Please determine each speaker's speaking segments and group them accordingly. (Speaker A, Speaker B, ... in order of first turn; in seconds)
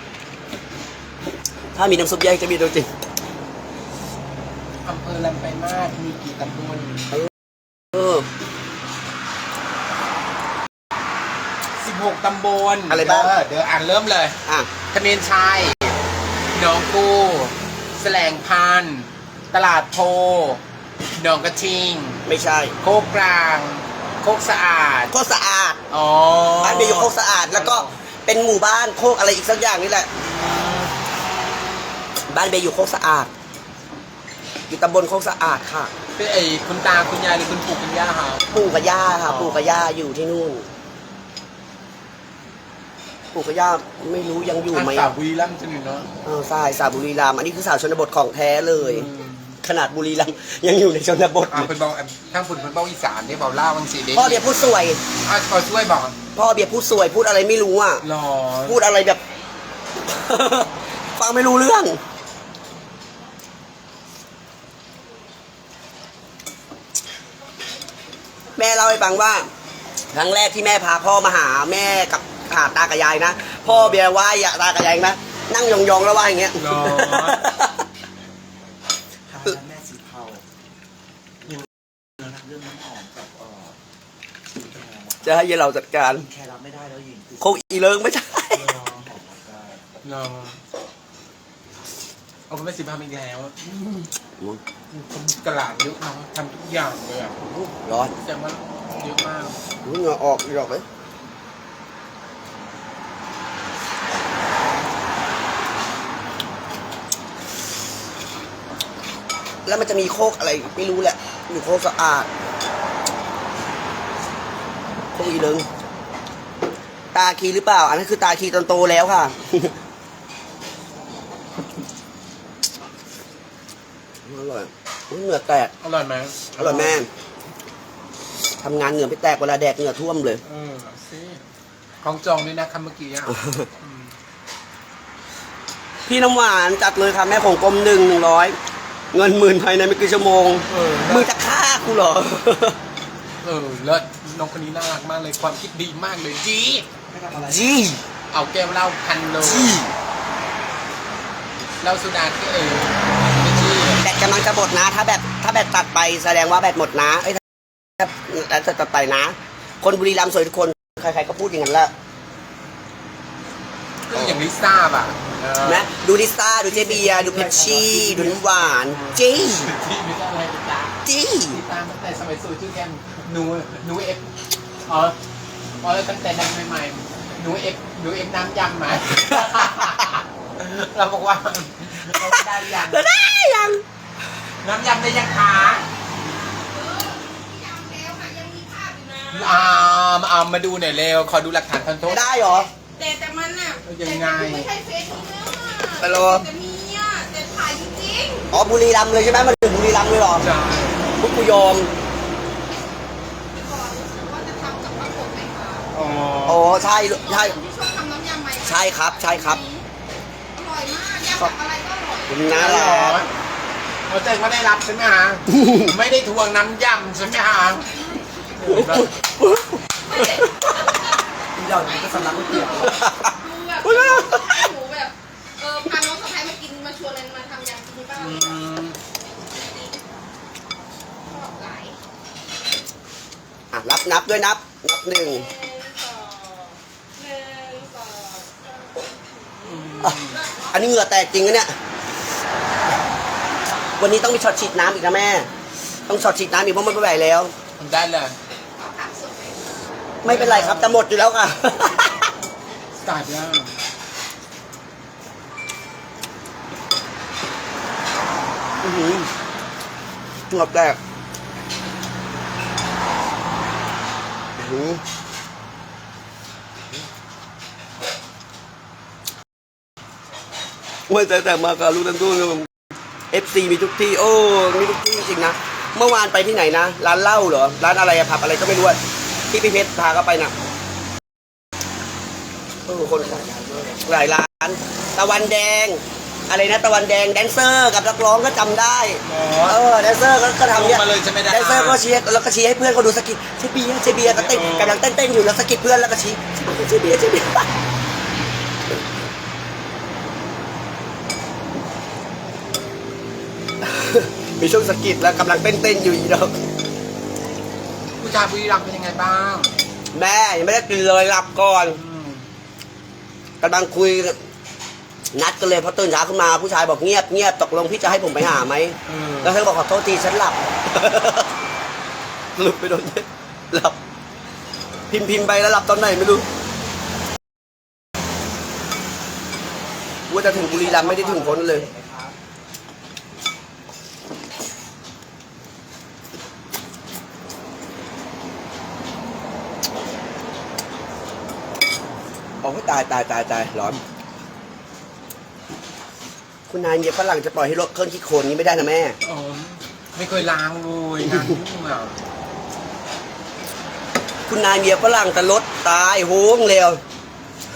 Speaker A: 1.7-2.9, 7.9-8.3, 12.9-13.3, 22.2-22.7, 25.1-25.8, 26.6-30.1, 32.3-33.3, 34.7-35.9, 38.5-40.7, 43.3-45.1, 46.2-49.1, 49.6-51.7, 54.1-55.0, 56.3-58.0, 58.6-59.2, 60.0-62.0, 68.5-69.5, 70.1-77.8, 85.2-86.3, 87.4-88.7, 97.5-98.1, 99.8-100.8, 109.7-112.3, 115.1-115.7, 117.1-119.7, 124.2-125.7, 126.6-127.1, 128.6-130.4, 133.3-133.7, 136.1-138.6, 139.1-142.8, 147.3-148.0, 149.4-149.9, 154.0-157.4, 158.0-161.9, 165.6-169.7, 171.0-171.6, 179.3-180.0, 182.1-183.8, 192.1-192.7, 196.0-196.4, 198.5-200.4, 201.2-201.9, 206.4-207.6, 208.6-209.6, 212.3-213.2, 215.5-215.9, 218.7-220.7, 222.8-224.7, 233.7-235.4, 240.7-241.7, 244.0-245.5, 246.1-247.5, 250.2-252.3, 258.8-259.3, 260.5-261.0, 264.6-265.0, 271.1-272.7, 273.3-279.0, 279.5-280.5, 282.9-297.7, 303.8-306.5, 310.1-312.0, 313.6-314.4, 315.3-321.5, 322.6-324.0, 325.1-326.5, 330.3-331.9, 342.6-344.0, 346.7-349.2, 351.2-351.6, 354.5-357.0
Speaker B: 4.8-7.1, 11.8-16.0, 16.5-20.6, 21.2-22.2, 22.8-25.1, 25.9-28.0, 30.3-30.9, 36.1-38.4, 39.2-39.8, 44.7-46.1, 48.8-49.6, 51.5-54.5, 55.2-56.2, 58.0-58.8, 73.7-74.0, 76.5-77.4, 88.5-89.0, 90.0-90.6, 92.5-93.6, 94.9-97.4, 98.2-99.6, 125.8-127.0, 130.4-131.4, 132.0-134.1, 140.7-141.3, 143.4-146.8, 148.3-149.8, 151.8-154.0, 164.1-165.9, 168.9-174.3, 174.8-175.2, 175.8-183.1, 184.6-185.9, 189.3-192.3, 193.8-194.7, 200.4-201.0, 205.9-206.6, 212.5-213.3, 214.1-217.9, 218.5-219.2, 228.1-229.0, 239.6-240.4, 247.8-248.3, 250.2-251.0, 253.0-253.7, 289.2-289.8, 290.7-292.0, 294.1-295.0, 308.2-309.8, 311.9-312.5, 319.1-319.6, 349.2-352.2
Speaker C: 79.3-80.4, 82.2-83.8, 84.6-85.4, 86.1-87.5, 88.7-89.8, 147.1-147.7, 166.5-168.9, 221.6-223.0, 283.1-284.1, 330.4-332.4
Speaker D: 186.3-189.7, 192.2-198.5, 203.6-205.9, 206.6-209.8, 210.5-213.0, 218.0-218.2, 220.1-221.1, 221.8-228.6, 231.2-232.0, 235.2-240.8, 248.7-250.2